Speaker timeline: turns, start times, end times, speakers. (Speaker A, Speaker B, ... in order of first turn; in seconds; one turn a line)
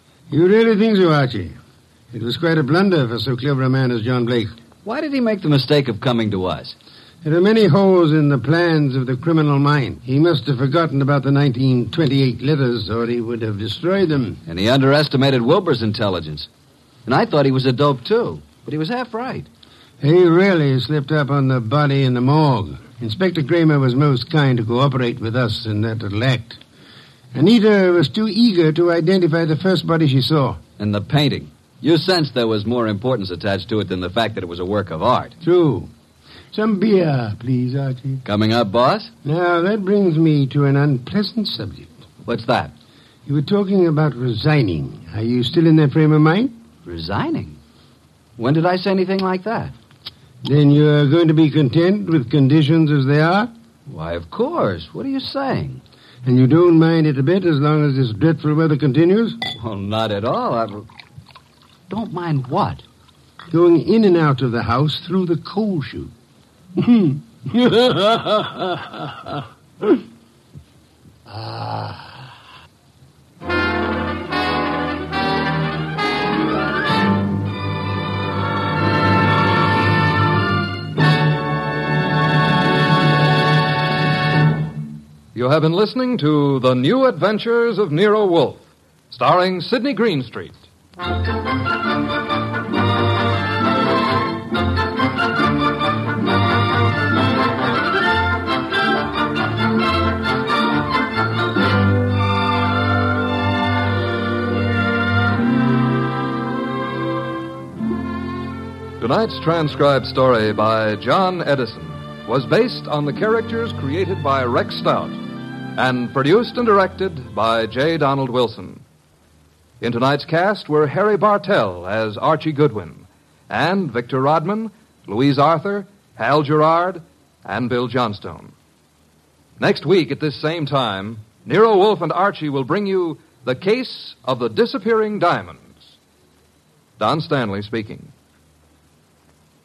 Speaker A: 0.3-1.6
Speaker A: 2.1-4.5
Speaker B: 4.8-6.7
Speaker A: 7.2-14.4
Speaker B: 14.4-16.5
Speaker B: 17.1-19.5
Speaker A: 20.0-26.6
Speaker A: 27.3-30.6
Speaker B: 30.8-35.4
Speaker A: 35.4-35.9
Speaker A: 36.5-38.2
Speaker B: 38.2-39.1
Speaker A: 39.2-41.9
Speaker B: 42.2-42.7
Speaker A: 43.2-46.5
Speaker B: 46.8-47.6
Speaker B: 48.4-49.7
Speaker A: 50.4-53.5
Speaker B: 53.9-55.8
Speaker A: 56.2-59.4
Speaker B: 59.6-60.9
Speaker B: 61.9-62.8
Speaker A: 63.5-66.1
Speaker A: 66.8-69.4
Speaker A: 71.3-72.0
Speaker C: 85.3-90.6
Speaker C: 109.0-118.8
Speaker C: 119.8-128.5
Speaker C: 129.6-135.9
Speaker C: 137.0-138.1